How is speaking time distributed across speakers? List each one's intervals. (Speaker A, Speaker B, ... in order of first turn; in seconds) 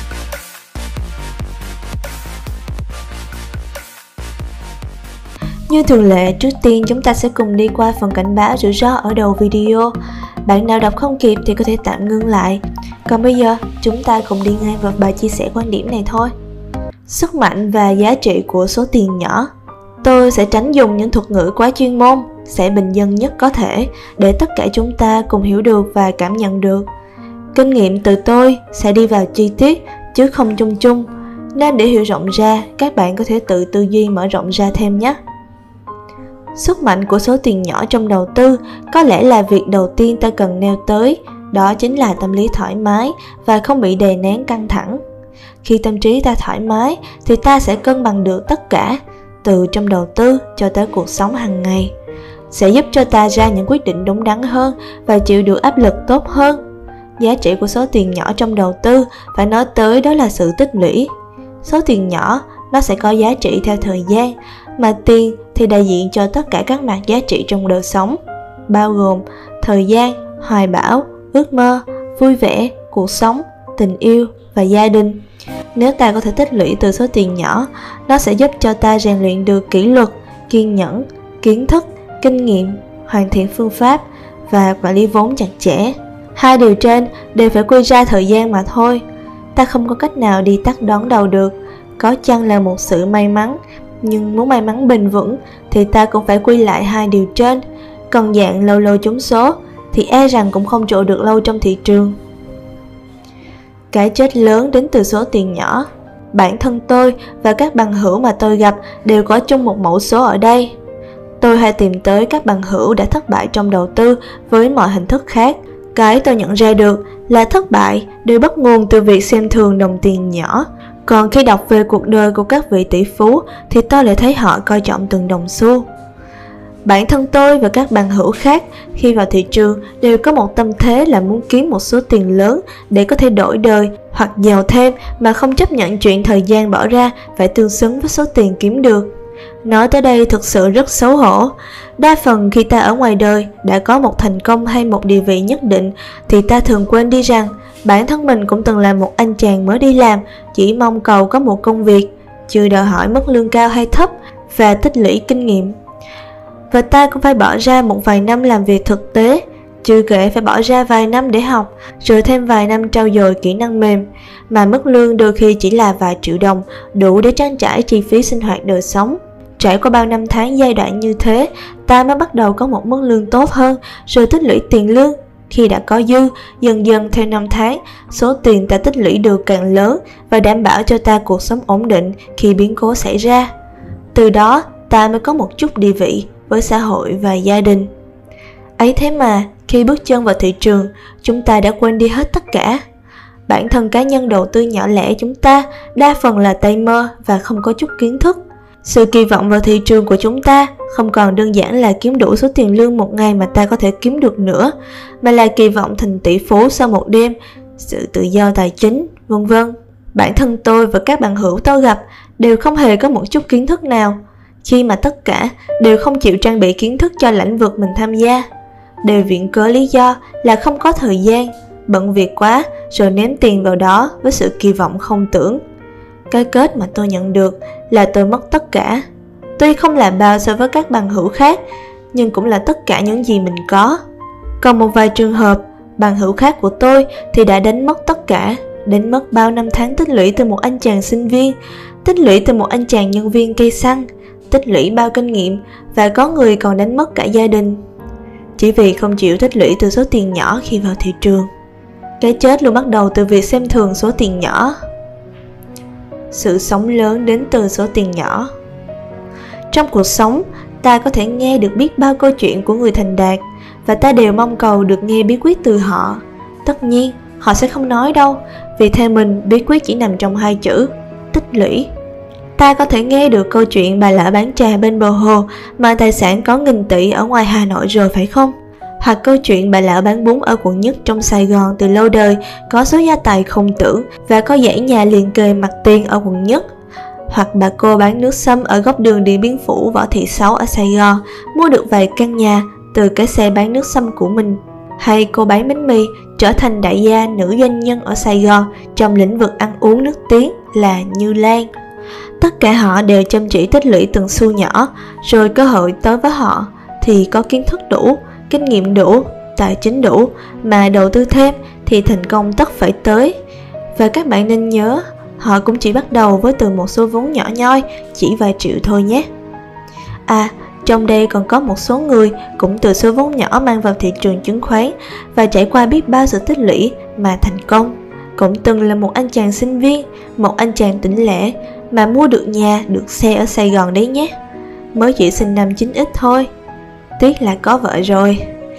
Speaker A: 5.7-9.9, 10.5-16.3, 17.1-19.5, 20.0-26.9, 27.5-35.2, 36.5-45.0, 45.6-51.9, 52.5-56.6, 57.2-61.1, 61.6-75.2, 75.8-89.0, 89.5-102.2, 103.9-110.8, 111.4-125.9, 126.8-139.1, 139.6-155.8, 156.7-183.5, 184.1-187.9, 188.8-192.8, 193.5-218.4, 219.0-225.6, 226.3-229.1, 229.6-231.6, 232.1-234.0, 234.6-247.8, 248.6-251.5, 252.2-254.7, 256.3-258.5, 259.7-271.9, 272.6-286.6, 287.3-301.7, 302.4-313.4, 313.9-319.2, 320.3-334.3, 334.9-336.5, 337.2-338.4